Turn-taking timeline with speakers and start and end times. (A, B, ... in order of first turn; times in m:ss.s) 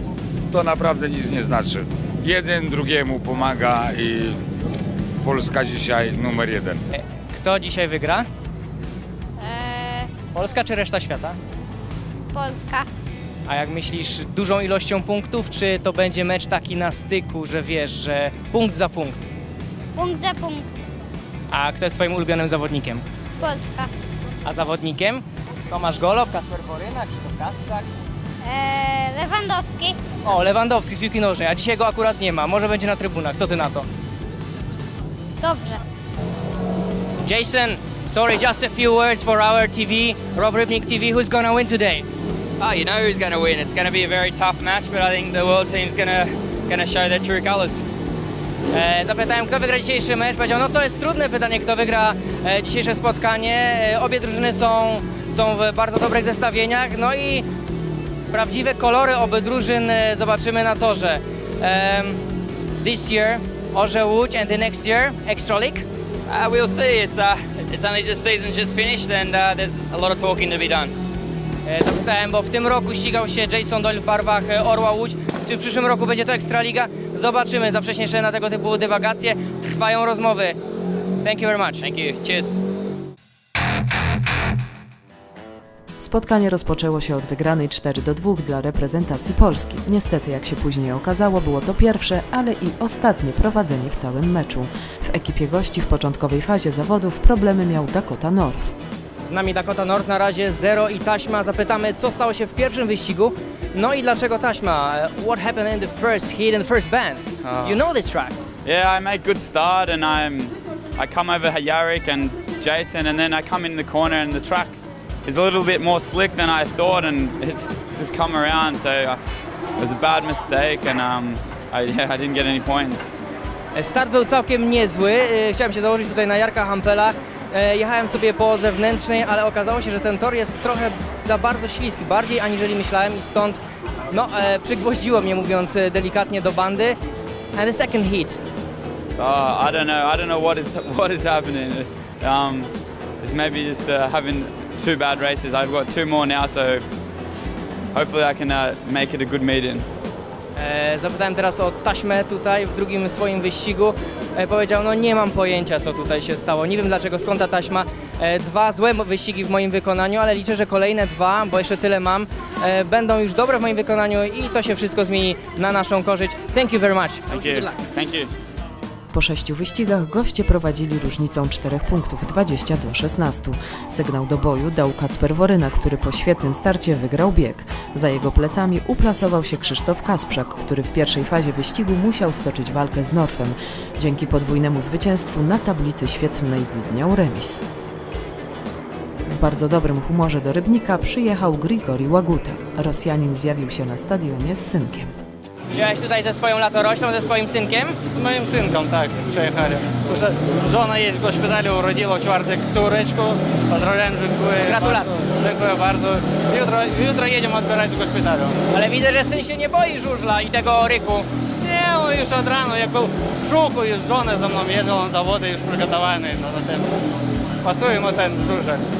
0:00.5-0:04.4 A
0:05.2-0:06.8 A
0:06.9-0:08.3 B
0:09.4-0:10.1 C
0:10.3-0:11.4 B
0:12.3-0:12.9 C
0:13.5-0:19.3 B
0:20.0-0:20.7 C
0:21.5-0:23.0 B
0:23.4-0:23.9 C
0:24.4-0:27.9 B
0:28.4-0:30.0 C
0:30.2-0:33.9 B
0:35.4-0:35.8 C
0:37.2-0:42.1 B
0:43.4-0:47.8 D
0:48.7-0:57.5 B
0:58.3-1:02.2 B
1:02.8-1:05.9 B
1:11.7-1:20.6 B
1:21.2-1:21.9 B
1:26.0-1:38.7 E
1:39.2-1:48.4 B
1:48.6-1:59.2 F
1:59.8-2:03.1 F
2:03.8-2:17.0 B
2:17.6-2:18.4 B
2:19.2-2:26.9 F
2:27.9-2:29.9 F
2:30.6-2:47.7 B
2:47.3-2:48.3 F
2:49.1-3:07.6 E
3:09.3-3:15.1 E
3:15.7-3:18.0 B
3:18.1-3:28.6 G
3:24.7-3:25.2 B
3:28.7-3:31.3 B
3:31.6-3:36.9 G
3:37.6-3:38.8 G